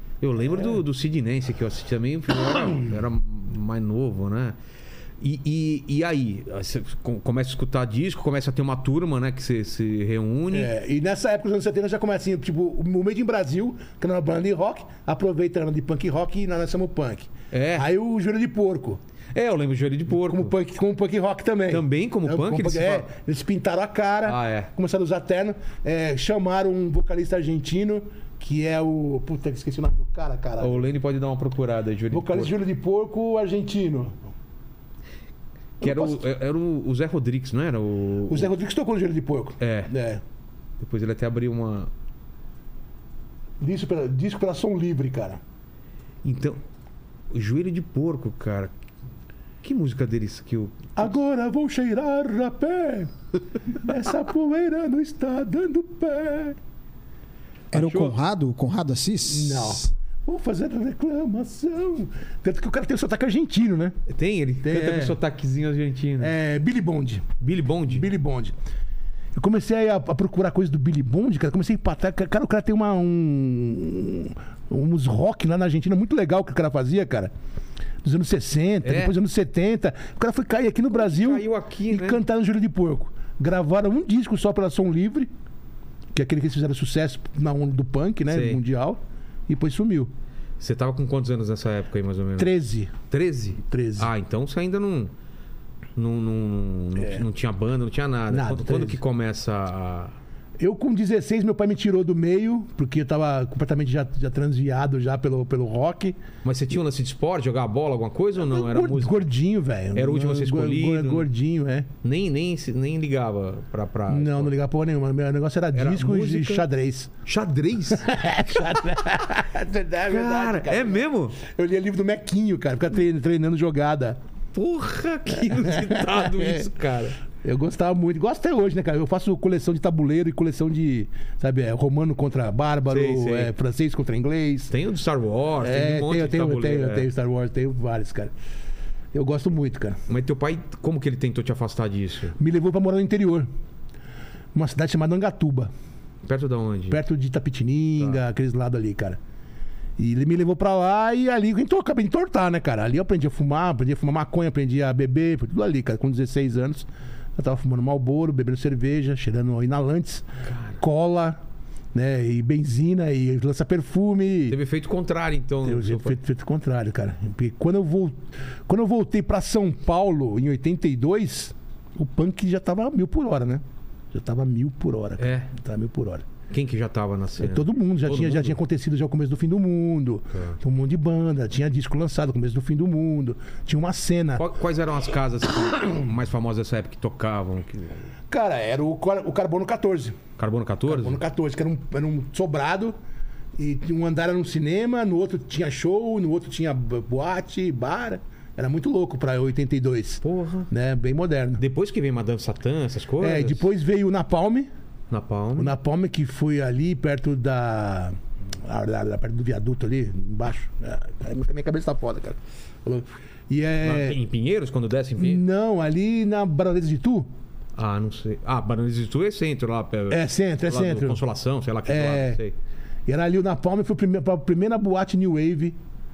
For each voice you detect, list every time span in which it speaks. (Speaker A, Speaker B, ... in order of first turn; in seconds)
Speaker A: 0.2-4.6, 5.2-10.7, 17.5-17.9, 19.3-20.5, 21.7-23.1, 24.2-24.7, 30.6-32.6, 35.8-38.5, 39.6-39.9, 40.8-41.9, 46.2-46.6, 47.3-48.7, 49.6-50.9, 57.7-58.1, 64.1-66.3, 67.4-68.1, 78.8-79.1, 80.9-82.2, 88.3-88.6, 90.6-92.5, 93.1-95.1, 96.0-100.2, 106.4-109.3, 110.0-111.3, 112.0-114.5, 115.7-116.7, 117.2-118.1, 120.1-121.4, 124.5-127.2, 132.9-133.5, 134.7-137.1, 140.1-142.4, 146.2-147.0, 160.4-160.8, 164.5-166.2, 175.2-175.5, 176.5-178.6, 184.4-188.1, 190.4-191.2, 200.2-200.7, 201.6-203.7, 205.1-205.8, 213.8-215.4, 217.8-222.6
Speaker B: 0.4-0.8, 10.5-19.0, 20.2-30.9, 32.1-34.2, 35.8-36.2, 38.3-40.2, 43.6-45.4, 51.0-53.1, 53.7-56.6, 59.2-64.0, 64.6-65.2, 66.2-67.3, 67.9-68.5, 69.3-77.3, 78.0-85.3, 86.1-90.1, 92.4-92.9, 93.6-94.1, 97.0-97.2, 98.3-99.0, 100.6-106.2, 108.4-111.9, 114.1-117.2, 117.9-124.2, 125.4-126.7, 127.4-134.7, 135.6-138.3, 139.1-140.0, 142.4-143.5, 144.5-145.7, 146.9-149.2, 150.0-160.3, 160.8-161.4, 161.9-164.6, 165.6-176.3, 177.4-184.4, 188.3-190.2, 190.9-193.0, 193.6-201.6, 203.2-204.7, 205.6-214.2, 215.2-217.3, 220.1-221.2, 221.8-222.4, 223.1-225.8
Speaker C: 57.7-59.9